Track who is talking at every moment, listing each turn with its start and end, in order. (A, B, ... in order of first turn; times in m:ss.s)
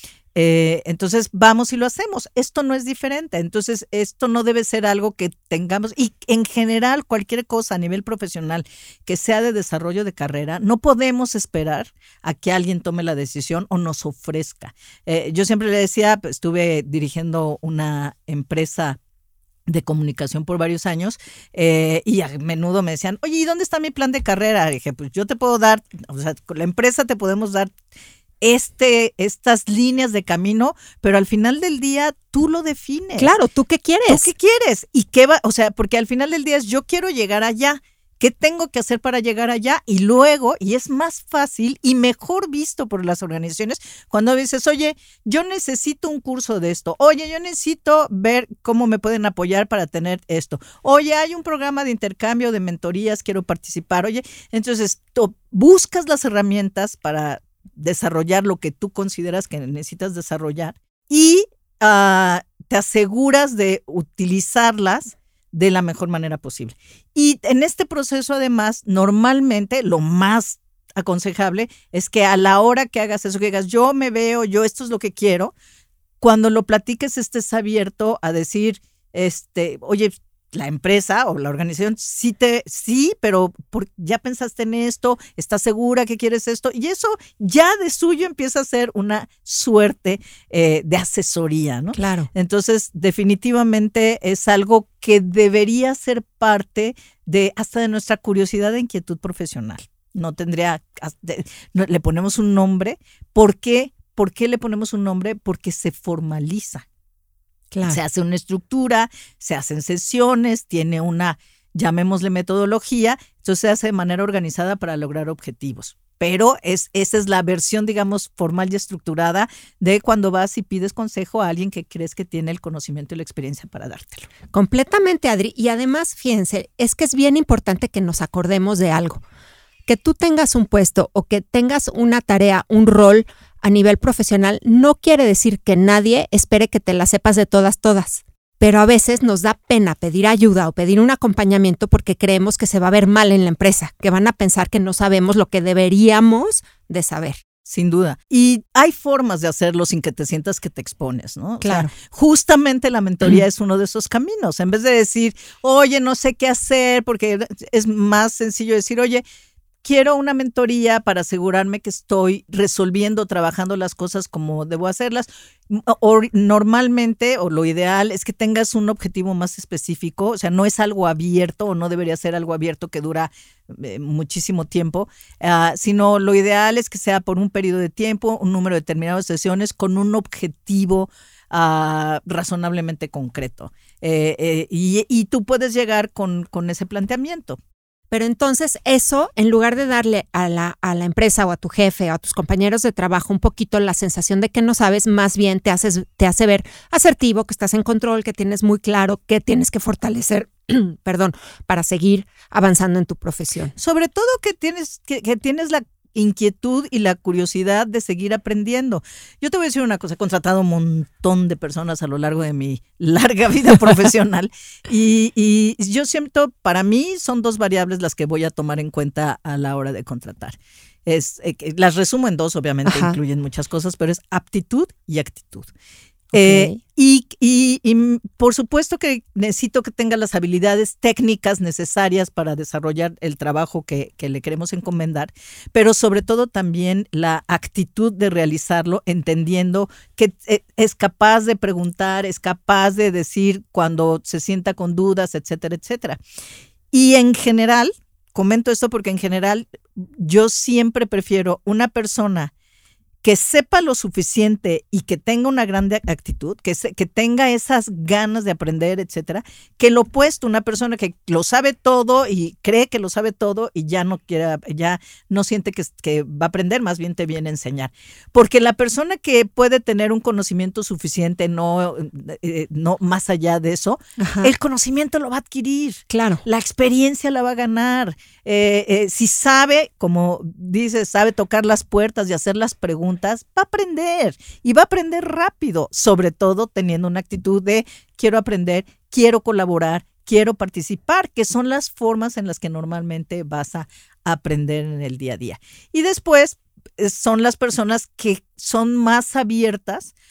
0:00.4-0:19.0 A
0:19.7-0:27.7 A
0:28.4-0:33.3 A
0:33.2-0:34.3 B
0:34.1-1:15.5 A
1:16.2-1:46.8 A
1:31.9-1:32.3 B
1:47.7-1:48.0 B
1:47.9-2:04.3 A
2:04.5-2:09.2 B
2:09.9-2:27.4 B
2:27.6-2:39.2 A
2:31.6-2:31.9 B
2:39.8-3:07.6 A
3:08.1-3:23.8 B
3:23.8-3:45.7 A
3:42.9-3:43.2 B
3:46.3-3:46.8 B
3:46.3-4:06.2 A
4:06.9-4:12.5 A
4:13.2-5:00.1 A
4:34.2-4:34.5 B
4:36.1-4:36.4 B